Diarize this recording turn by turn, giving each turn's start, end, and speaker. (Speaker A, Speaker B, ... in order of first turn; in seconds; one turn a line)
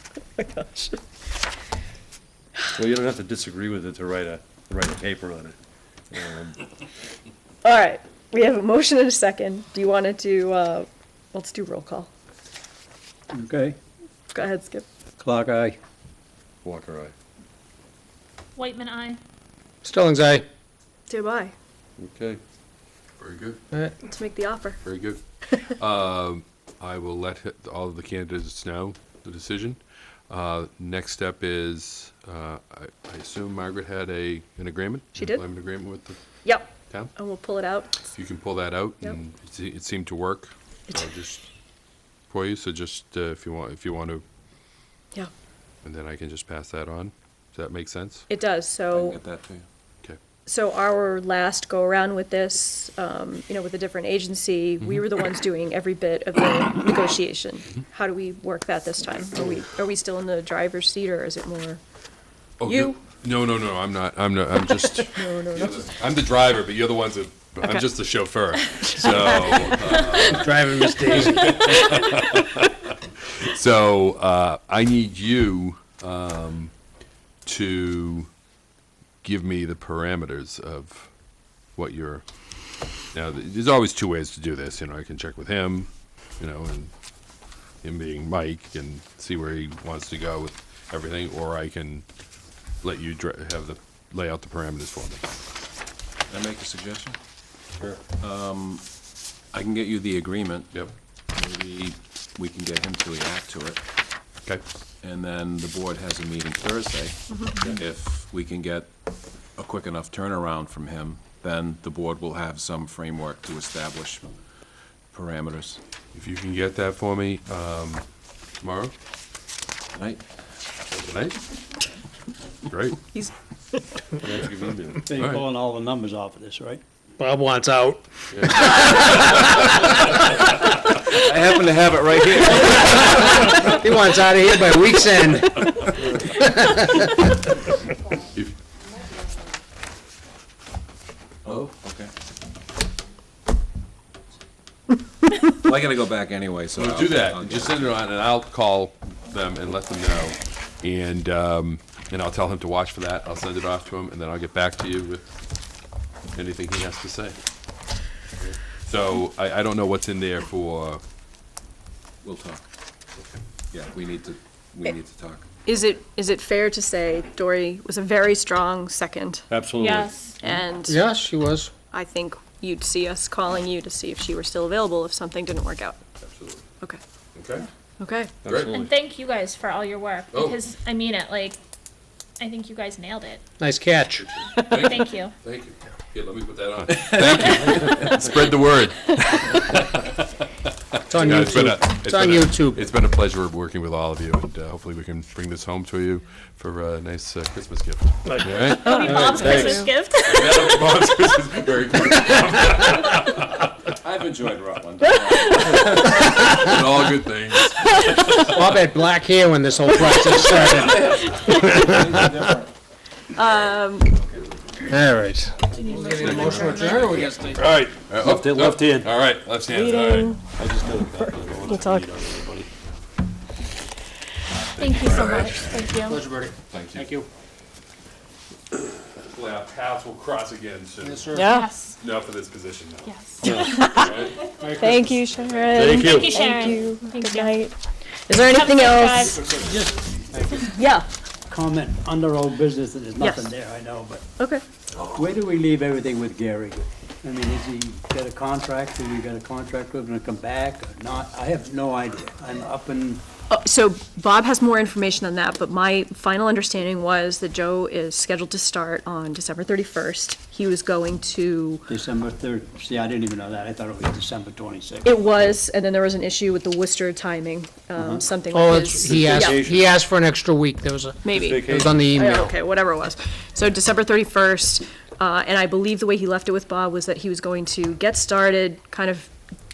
Speaker A: 0.4-1.0
Speaker B: 2.7-5.6
Speaker B: 6.1-6.6
Speaker A: 7.6-12.1
Speaker C: 13.3-13.8
Speaker A: 14.3-14.8
Speaker C: 15.2-15.8
Speaker B: 16.6-17.1
Speaker D: 18.6-19.2
Speaker E: 19.8-20.4
Speaker A: 21.1-21.5
Speaker B: 22.0-22.4
Speaker F: 23.2-23.6
Speaker A: 24.0-24.8
Speaker F: 24.8-36.2
Speaker A: 35.1-35.4
Speaker A: 36.4-38.0
Speaker F: 38.0-41.4
Speaker F: 42.3-44.2
Speaker F: 45.8-48.3
Speaker A: 48.3-49.2
Speaker G: 48.9-49.6
Speaker A: 50.5-61.8
Speaker F: 62.6-72.7
Speaker A: 62.6-63.0
Speaker A: 65.0-65.9
Speaker E: 70.3-71.8
Speaker F: 73.4-76.7
Speaker F: 77.4-78.3
Speaker F: 79.2-81.1
Speaker F: 81.7-82.2
Speaker F: 83.1-86.9
Speaker F: 87.8-92.0
Speaker F: 92.8-95.3
Speaker G: 96.3-97.2
Speaker G: 98.2-98.9
Speaker G: 99.5-100.7
Speaker G: 101.3-103.8
Speaker G: 105.0-108.9
Speaker A: 107.3-107.6
Speaker G: 109.5-114.3
Speaker G: 115.1-115.8
Speaker F: 116.1-118.0
Speaker F: 118.6-118.9
Speaker G: 119.9-120.2
Speaker F: 120.9-121.4
Speaker F: 122.7-123.0
Speaker A: 123.1-124.0
Speaker B: 124.2-125.1
Speaker C: 125.0-126.8
Speaker E: 127.2-129.3
Speaker F: 128.3-130.4
Speaker G: 131.1-133.6
Speaker E: 133.1-137.1
Speaker G: 141.4-142.1
Speaker G: 145.5-148.0
Speaker F: 146.7-155.3
Speaker F: 156.3-157.4
Speaker F: 158.4-161.0
Speaker G: 162.2-162.6
Speaker G: 163.7-165.5
Speaker A: 165.7-169.4
Speaker B: 169.5-170.1
Speaker D: 169.8-170.4
Speaker A: 170.4-171.0
Speaker E: 170.9-171.7
Speaker A: 171.9-176.0
Speaker F: 176.2-176.6
Speaker F: 177.3-177.7
Speaker A: 178.0-178.3
Speaker B: 178.4-178.9
Speaker F: 178.4-178.8
Speaker D: 178.7-181.6
Speaker F: 180.3-180.6
Speaker D: 182.4-183.4
Speaker E: 183.6-184.3
Speaker F: 184.5-190.2
Speaker D: 184.8-185.3
Speaker G: 186.9-188.5
Speaker F: 191.0-199.7
Speaker E: 191.1-192.9
Speaker D: 198.8-200.6
Speaker E: 199.0-199.7
Speaker A: 199.0-199.9
Speaker F: 200.2-203.7
Speaker G: 203.9-206.4
Speaker A: 205.4-205.7
Speaker F: 205.6-208.8
Speaker E: 208.4-211.1
Speaker A: 210.1-210.4
Speaker G: 210.5-212.7
Speaker A: 211.2-211.8
Speaker E: 211.7-212.3
Speaker A: 213.3-214.2
Speaker E: 214.9-217.6
Speaker A: 215.8-216.8
Speaker F: 216.1-220.4
Speaker B: 217.5-219.1
Speaker A: 219.7-220.4
Speaker B: 220.5-222.7
Speaker A: 221.1-222.1
Speaker F: 221.3-221.7
Speaker F: 224.8-225.8
Speaker D: 224.8-226.2
Speaker E: 226.1-227.2
Speaker F: 226.7-227.1
Speaker F: 229.2-231.4
Speaker E: 231.1-231.4
Speaker A: 231.3-231.7
Speaker D: 231.4-232.0
Speaker F: 232.0-234.4
Speaker D: 233.1-234.0
Speaker B: 233.4-233.8
Speaker A: 233.7-237.8
Speaker C: 234.6-235.2
Speaker B: 235.7-236.3
Speaker D: 235.9-237.6
Speaker A: 238.2-239.5
Speaker D: 238.5-239.4
Speaker C: 239.5-240.7
Speaker A: 240.7-241.1
Speaker C: 241.5-244.2
Speaker A: 243.2-243.5
Speaker A: 244.4-244.6
Speaker C: 245.1-253.2
Speaker A: 253.5-261.9
Speaker C: 261.9-265.3
Speaker A: 265.0-269.7
Speaker C: 268.0-268.2
Speaker E: 268.5-271.2
Speaker B: 268.8-270.0
Speaker A: 271.2-279.3
Speaker B: 271.3-272.3
Speaker E: 271.7-272.5